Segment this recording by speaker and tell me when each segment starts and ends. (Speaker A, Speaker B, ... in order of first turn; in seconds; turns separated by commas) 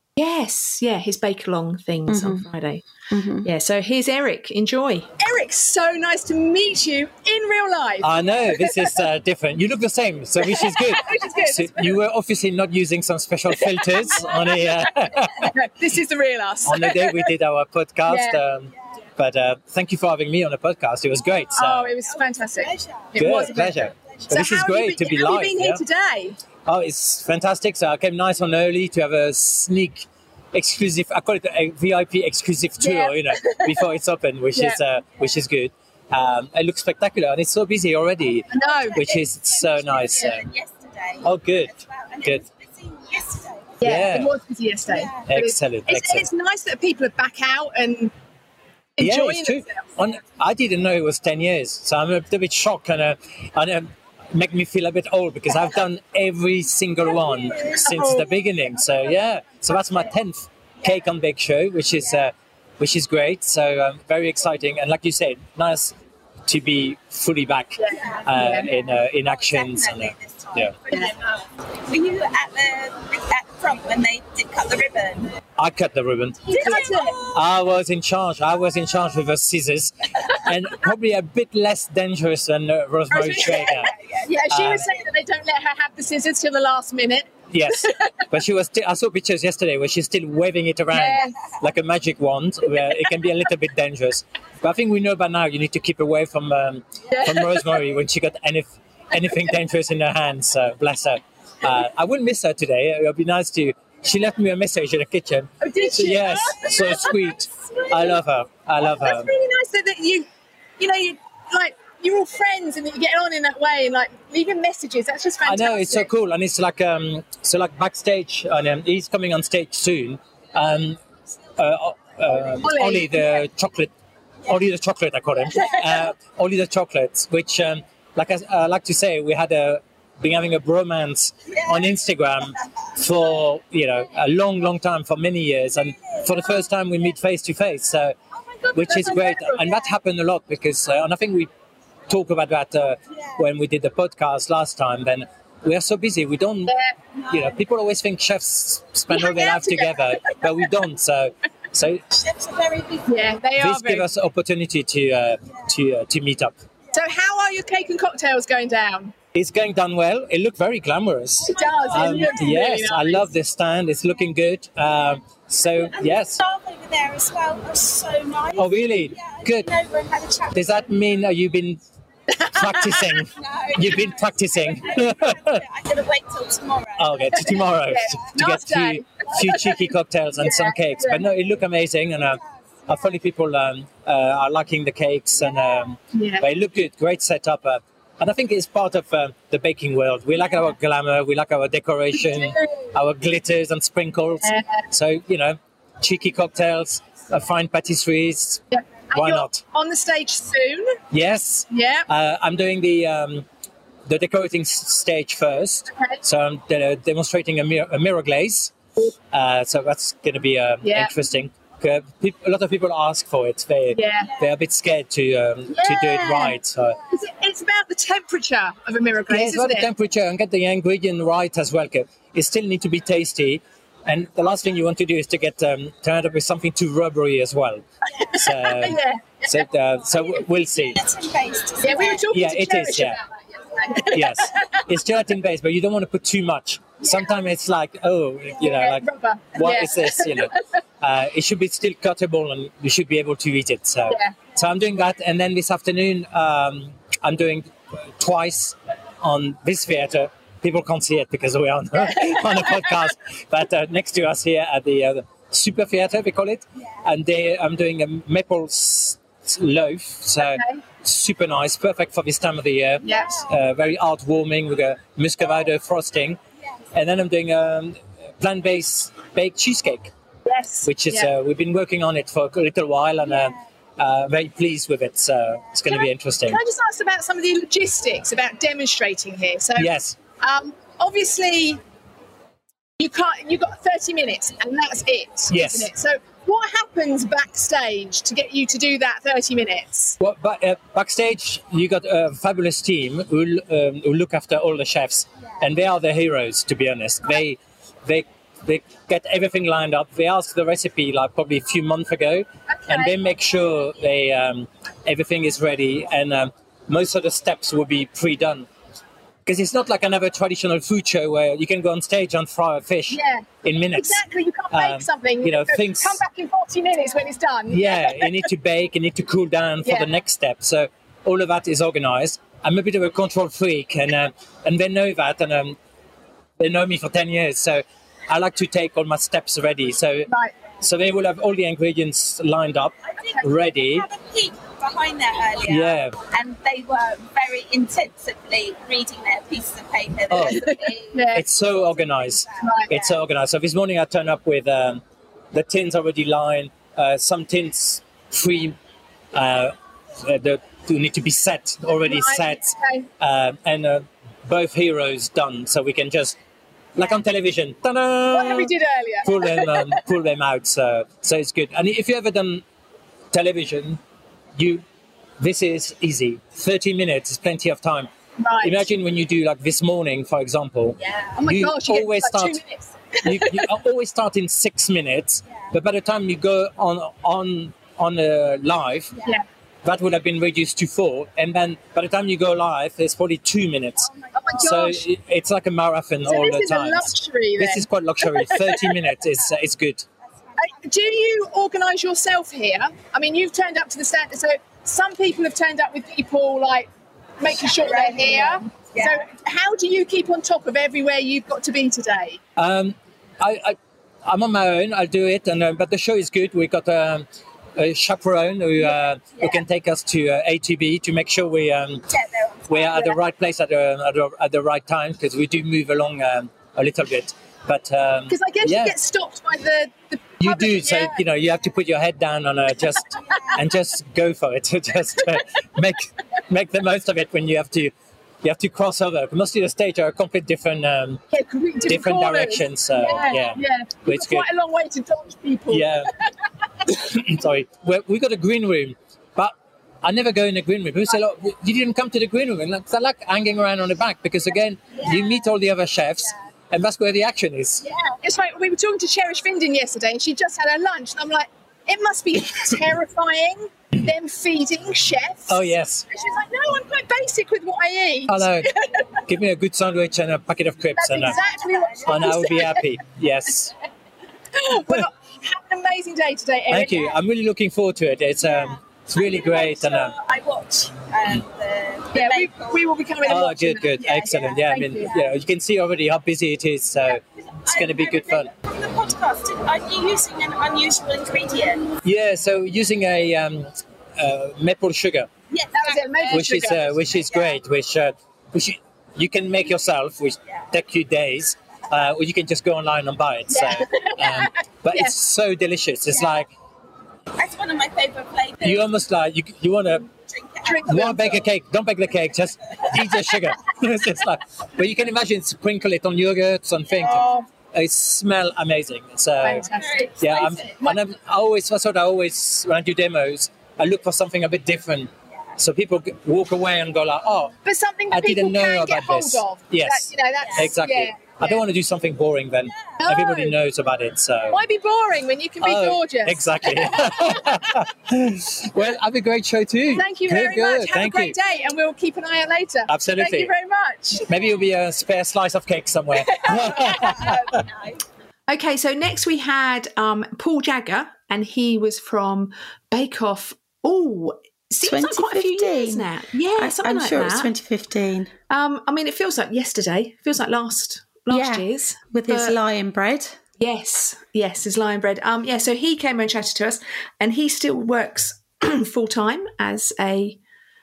Speaker A: 0.2-2.8, Speaker B: 2.1-2.5, Speaker B: 3.1-3.5, Speaker A: 3.4-5.1, Speaker C: 5.2-9.0, Speaker D: 8.0-15.5, Speaker C: 10.4-12.0, Speaker C: 13.7-14.8, Speaker C: 15.5-17.4, Speaker D: 16.6-22.0, Speaker C: 18.1-18.4, Speaker E: 21.2-21.5, Speaker C: 21.5-26.4, Speaker E: 22.1-24.3, Speaker D: 23.1-25.8, Speaker D: 26.6-40.4, Speaker C: 32.8-33.2, Speaker C: 34.5-34.8, Speaker C: 38.5-39.0, Speaker E: 38.5-44.0, Speaker D: 41.2-42.4, Speaker C: 43.8-48.1, Speaker D: 43.8-44.3, Speaker E: 44.9-45.3, Speaker D: 45.2-46.3, Speaker C: 49.0-49.9, Speaker D: 49.0-65.9, Speaker E: 57.0-57.9, Speaker C: 57.9-58.4, Speaker E: 58.7-59.1, Speaker D: 66.5-70.8, Speaker C: 67.8-68.7, Speaker E: 67.9-71.3, Speaker C: 70.9-71.1, Speaker E: 71.9-75.3, Speaker D: 75.6-83.9, Speaker C: 76.4-77.2, Speaker E: 76.5-77.4, Speaker C: 83.1-88.0, Speaker E: 83.3-84.3, Speaker D: 84.4-84.9, Speaker D: 87.5-109.3, Speaker C: 90.9-91.3, Speaker C: 97.1-97.7, Speaker C: 105.6-107.3, Speaker C: 107.9-108.2, Speaker C: 108.8-110.3, Speaker C: 110.8-116.1, Speaker D: 115.4-121.0, Speaker D: 121.6-123.9, Speaker C: 122.6-123.4, Speaker D: 124.5-138.2, Speaker E: 131.4-132.0, Speaker E: 136.0-136.6, Speaker E: 138.6-139.2, Speaker D: 138.7-141.5, Speaker C: 138.8-139.8, Speaker D: 142.1-146.8, Speaker E: 143.1-143.4, Speaker C: 146.7-146.9, Speaker D: 147.3-152.0, Speaker C: 149.1-150.3, Speaker E: 152.1-153.4, Speaker C: 153.1-154.1, Speaker D: 153.6-156.5, Speaker C: 156.9-159.1, Speaker D: 159.3-166.4, Speaker E: 161.4-162.6, Speaker C: 161.4-163.3, Speaker E: 165.8-170.9, Speaker D: 168.5-169.7, Speaker D: 170.5-171.8, Speaker D: 172.5-175.6, Speaker C: 172.5-173.0, Speaker E: 173.3-177.5, Speaker D: 177.0-199.6, Speaker C: 177.4-181.3, Speaker C: 186.1-186.5, Speaker C: 192.1-192.7, Speaker C: 194.4-194.8, Speaker C: 198.7-201.0, Speaker D: 201.1-203.4, Speaker C: 201.7-202.1, Speaker D: 204.1-208.8, Speaker C: 205.9-206.2, Speaker D: 209.3-217.0, Speaker C: 210.8-211.1, Speaker C: 213.9-214.3, Speaker C: 215.7-216.6, Speaker C: 217.1-219.9, Speaker D: 219.3-231.0, Speaker E: 228.1-228.4, Speaker C: 228.4-229.6, Speaker E: 230.8-232.3, Speaker C: 231.8-234.7, Speaker D: 232.3-233.2, Speaker D: 234.1-266.4, Speaker C: 238.6-240.6, Speaker C: 244.1-244.5, Speaker C: 252.2-252.6, Speaker C: 260.4-260.8, Speaker C: 263.0-263.5, Speaker E: 263.0-263.5, Speaker D: 266.9-270.1, Speaker C: 270.4-271.3, Speaker D: 270.8-276.6, Speaker C: 275.9-281.8, Speaker D: 279.8-280.2, Speaker C: 283.0-290.2, Speaker D: 285.5-285.9, Speaker D: 290.2-308.7, Speaker C: 302.7-303.1, Speaker D: 309.4-316.2, Speaker C: 313.1-318.4, Speaker D: 317.7-325.8, Speaker C: 319.8-320.1, Speaker D: 326.6-334.1, Speaker C: 330.3-330.6, Speaker E: 333.1-342.6, Speaker D: 335.6-336.2, Speaker D: 340.3-340.7, Speaker C: 340.7-341.5, Speaker D: 341.3-345.0, Speaker C: 342.6-343.0, Speaker D: 345.5-348.8, Speaker D: 349.3-356.4, Speaker C: 352.0-353.1, Speaker D: 356.9-358.7, Speaker C: 358.3-360.0, Speaker D: 359.2-362.6, Speaker D: 363.3-364.0, Speaker D: 364.6-364.8, Speaker D: 365.4-368.1, Speaker C: 368.4-368.9, Speaker D: 368.6-372.6, Speaker E: 371.0-371.4, Speaker C: 371.4-373.7, Speaker D: 373.2-379.1, Speaker E: 379.1-379.4, Speaker D: 379.8-390.0, Speaker E: 384.0-384.7, Speaker C: 384.3-385.0, Speaker C: 386.2-388.9, Speaker E: 390.5-390.9, Speaker C: 390.6-396.9, Speaker C: 397.4-402.4, Speaker E: 397.5-399.2, Speaker D: 402.6-412.0, Speaker E: 409.4-409.6, Speaker E: 412.1-413.2, Speaker D: 412.7-419.0, Speaker C: 418.3-421.2, Speaker D: 420.4-431.2, Speaker E: 423.3-423.5, Speaker C: 431.3-435.9, Speaker D: 431.9-434.5, Speaker E: 433.1-433.4, Speaker D: 435.7-436.1, Speaker D: 436.9-447.8, Speaker E: 444.9-445.4, Speaker E: 447.8-448.1, Speaker C: 448.2-459.0, Speaker D: 455.5-456.1, Speaker D: 458.3-458.7, Speaker D: 459.3-461.4, Speaker C: 460.9-462.8, Speaker E: 461.2-462.3, Speaker D: 462.0-463.7, Speaker C: 464.6-467.1, Speaker D: 466.7-470.1, Speaker E: 468.4-472.9, Speaker C: 472.1-475.1, Speaker D: 473.2-478.5, Speaker E: 477.1-481.9, Speaker D: 482.0-485.3, Speaker E: 485.5-487.6, Speaker C: 485.7-486.9, Speaker D: 486.3-496.5, Speaker C: 493.5-495.1, Speaker E: 496.1-496.4, Speaker E: 497.4-498.9, Speaker D: 498.6-500.1, Speaker E: 500.3-501.2, Speaker C: 500.6-501.4, Speaker D: 500.9-509.7, Speaker E: 507.0-507.3, Speaker C: 507.0-507.5, Speaker C: 509.4-511.0, Speaker E: 509.5-510.7, Speaker D: 510.2-517.5, Speaker C: 517.6-521.6, Speaker D: 518.1-524.6, Speaker E: 520.4-520.7, Speaker C: 523.0-523.6, Speaker C: 524.5-527.6, Speaker D: 525.6-531.4, Speaker C: 529.9-534.3, Speaker D: 532.9-533.5, Speaker D: 534.1-537.4, Speaker E: 536.4-537.9, Speaker A: 538.5-547.5, Speaker B: 544.8-548.3, Speaker A: 548.5-552.5, Speaker B: 551.3-553.4, Speaker A: 553.6-560.4